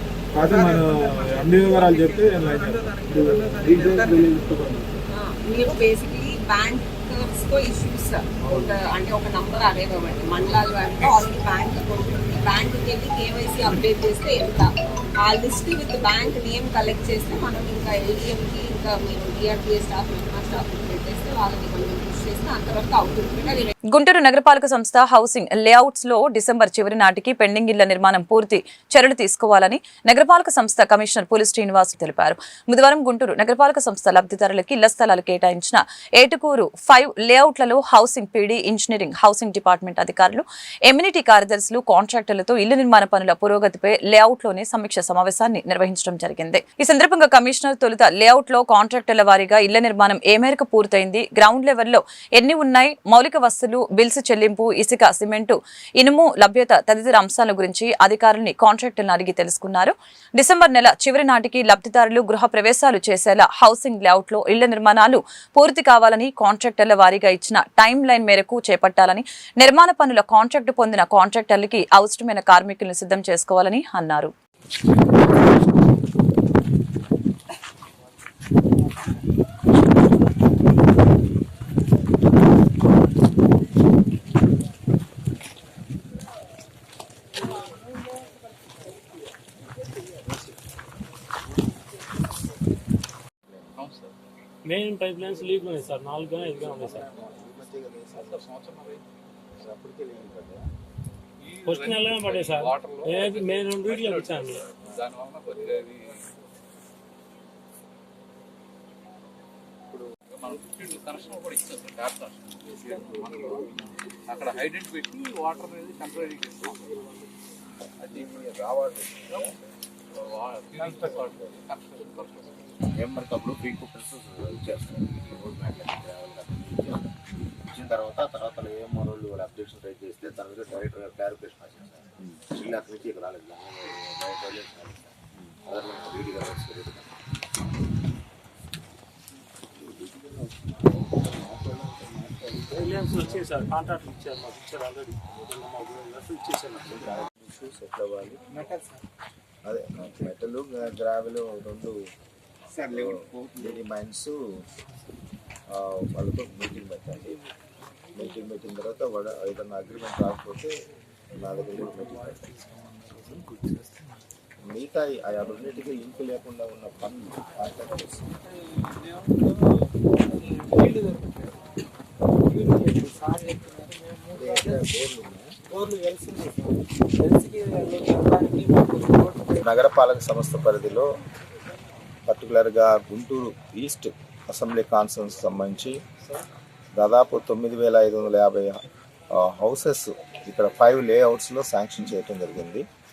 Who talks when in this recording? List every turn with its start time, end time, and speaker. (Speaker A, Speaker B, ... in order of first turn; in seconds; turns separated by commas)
Speaker A: 0.3-5.0, Speaker B: 5.1-23.7, Speaker A: 8.5-8.7, Speaker C: 23.9-74.3, Speaker D: 93.8-94.1, Speaker E: 94.7-97.2, Speaker F: 96.8-98.3, Speaker D: 98.1-99.0, Speaker F: 99.6-100.6, Speaker D: 101.4-106.2, Speaker E: 101.7-104.6, Speaker D: 110.3-116.9, Speaker D: 118.0-118.4, Speaker F: 118.2-119.0, Speaker D: 119.3-119.5, Speaker D: 120.1-122.6, Speaker F: 123.0-127.1, Speaker F: 127.7-134.9, Speaker F: 135.6-137.0, Speaker E: 142.7-147.1, Speaker F: 146.9-148.4, Speaker F: 149.7-152.0, Speaker F: 152.8-154.3, Speaker F: 155.7-157.4, Speaker F: 158.2-160.7, Speaker F: 161.4-162.6, Speaker F: 164.6-168.4, Speaker F: 174.3-175.5, Speaker F: 179.6-181.1, Speaker F: 182.3-186.0, Speaker F: 186.9-188.8, Speaker F: 189.3-192.9